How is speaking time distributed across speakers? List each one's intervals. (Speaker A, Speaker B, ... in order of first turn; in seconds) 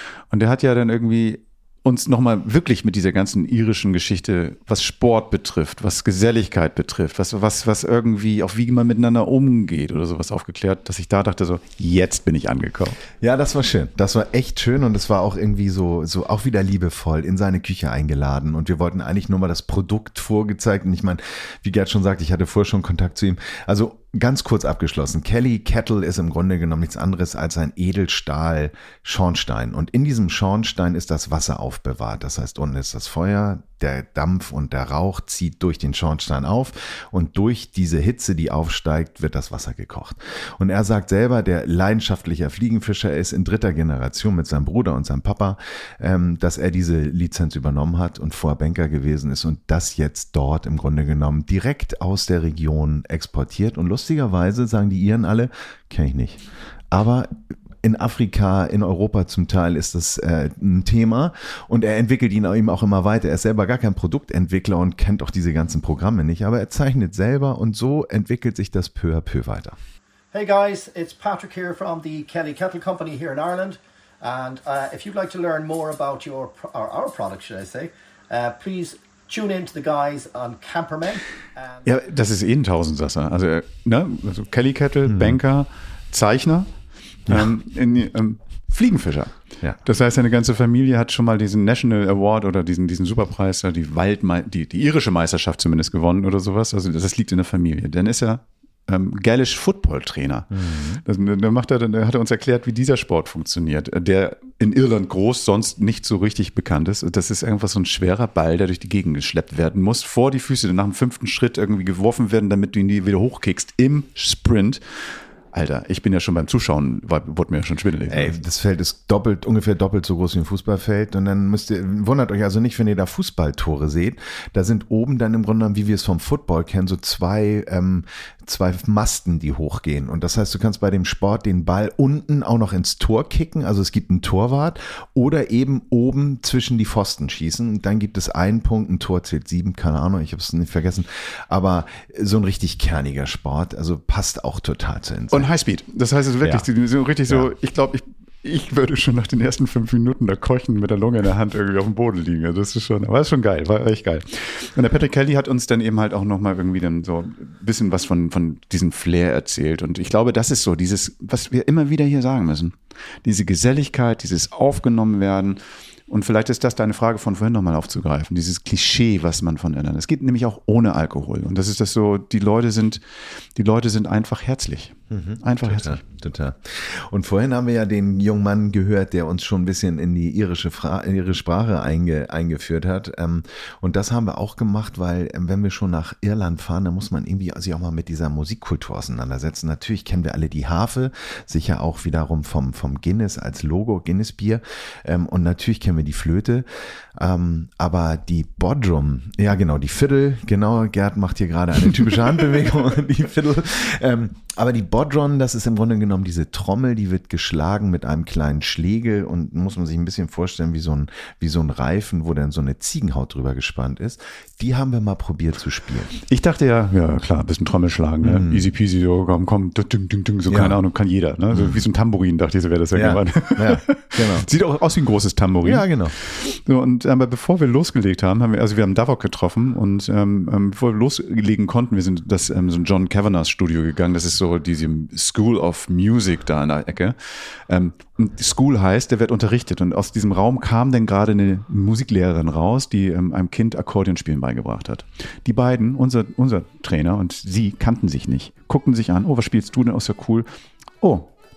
Speaker A: 0.3-13.0, 81.8-86.7, 87.3-100.5, 101.0-118.4, 145.3-173.0, 173.5-176.0, 216.3-250.5, 251.0-251.3
Speaker B: 13.2-69.8, 85.1-85.4, 100.5-101.0, 118.1-145.5, 175.1-216.2, 218.2-218.7, 220.5-220.8, 221.5-221.8, 222.9-224.5, 225.6-226.2
Speaker C: 70.3-81.7